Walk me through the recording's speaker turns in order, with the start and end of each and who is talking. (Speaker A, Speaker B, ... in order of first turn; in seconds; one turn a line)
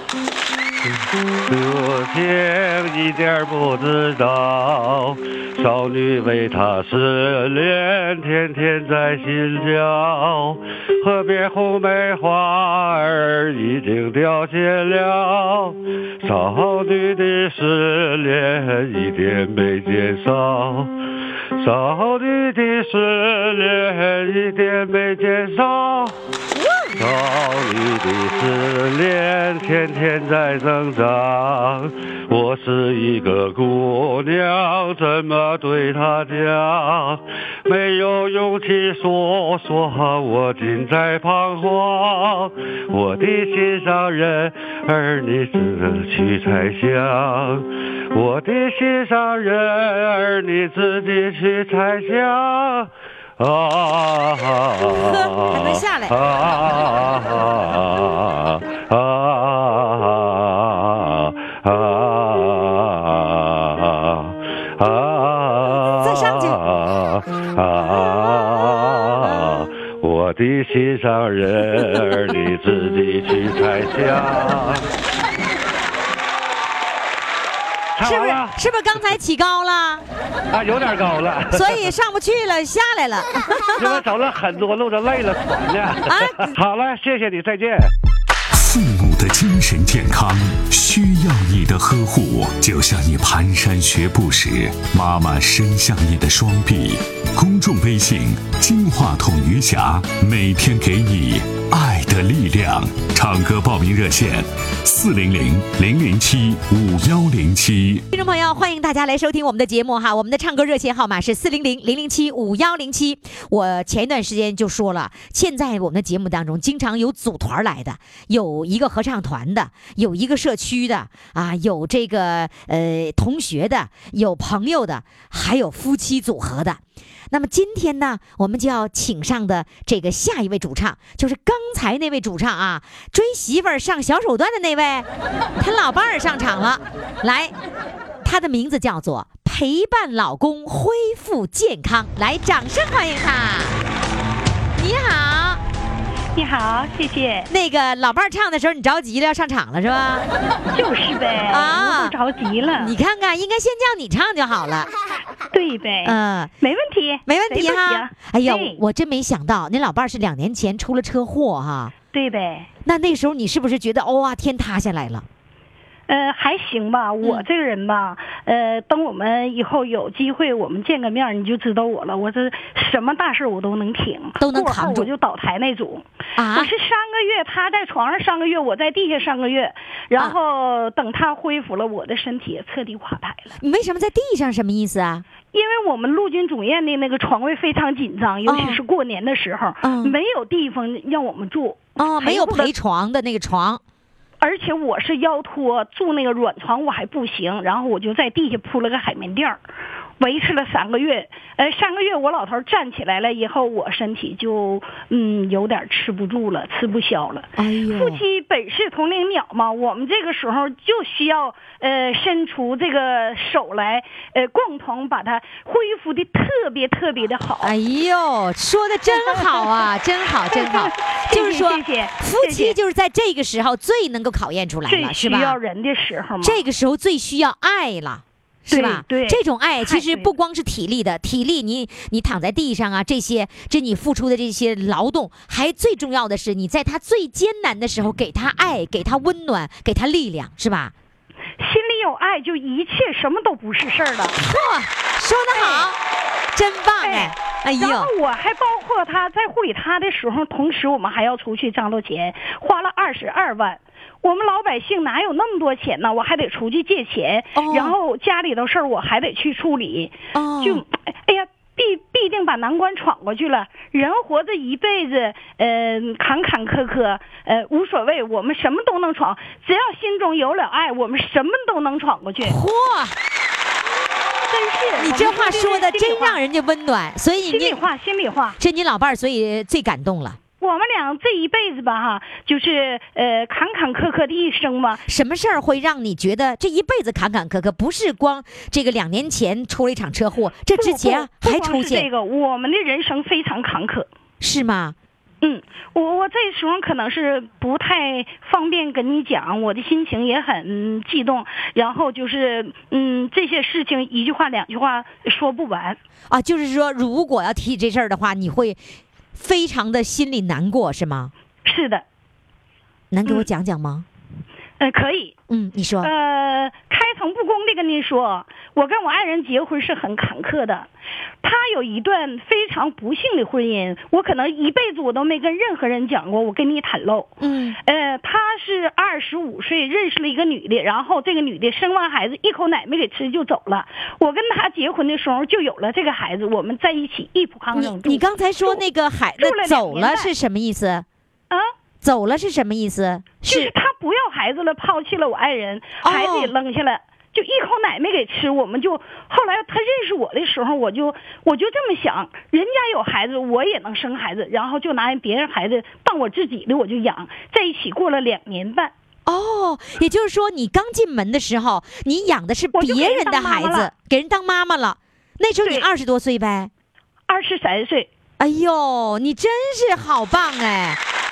Speaker A: 0.8-20.9
Speaker A: 21.6-26.1
Speaker B: 26.5-27.0
Speaker A: 26.9-74.9
Speaker B: 54.8-56.1
Speaker B: 65.9-66.6
Speaker A: 78.0-78.5
Speaker B: 78.0-80.0
Speaker A: 80.5-81.9
Speaker B: 81.5-84.0
Speaker A: 83.8-87.9
Speaker B: 86.1-86.5
Speaker C: 88.5-108.0
Speaker B: 108.1-135.1
Speaker B: 135.6-137.5
Speaker B: 138.2-143.8
Speaker B: 144.8-145.6
Speaker D: 146.3-147.5
Speaker B: 147.5-150.3
Speaker D: 150.7-152.9
Speaker B: 151.5-152.1
Speaker B: 152.8-154.9
Speaker D: 155.5-158.8
Speaker B: 156.0-156.5
Speaker B: 157.2-161.9
Speaker D: 162.1-162.7
Speaker B: 162.8-165.2
Speaker D: 166.1-183.5
Speaker B: 174.4-175.1
Speaker B: 176.3-176.7
Speaker B: 183.6-185.2
Speaker D: 185.5-192.7
Speaker B: 188.4-188.8
Speaker B: 189.8-190.2
Speaker B: 192.0-193.8
Speaker D: 194.4-199.6
Speaker D: 200.2-217.7
Speaker B: 207.6-208.2
Speaker B: 217.6-225.6
Speaker D: 219.1-222.8
Speaker D: 224.8-226.6
Speaker B: 226.4-240.9
Speaker D: 228.7-230.3
Speaker D: 241.6-244.4
Speaker B: 244.4-246.0
Speaker D: 245.5-245.9
Speaker B: 246.5-248.1
Speaker D: 247.0-272.6
Speaker B: 257.5-257.9
Speaker B: 260.3-260.8
Speaker B: 272.4-273.1
Speaker D: 274.5-276.4
Speaker B: 275.0-277.8
Speaker D: 277.4-278.6
Speaker B: 278.6-280.4
Speaker D: 280.6-285.0
Speaker B: 285.0-292.1
Speaker D: 290.7-294.1
Speaker B: 294.4-294.9
Speaker D: 295.4-306.0
Speaker B: 306.3-308.8
Speaker B: 309.3-311.3
Speaker D: 311.6-312.0
Speaker B: 313.1-314.1
Speaker D: 314.8-315.3
Speaker B: 315.5-316.1
Speaker D: 316.0-320.9
Speaker D: 321.4-327.3
Speaker B: 327.4-327.8
Speaker D: 327.8-338.8
Speaker B: 337.7-341.0
Speaker D: 339.4-340.3
Speaker B: 342.0-343.7
Speaker D: 343.4-358.9
Speaker B: 346.0-346.5
Speaker B: 359.2-366.7
Speaker D: 362.7-363.9
Speaker D: 367.3-368.1
Speaker B: 368.4-371.0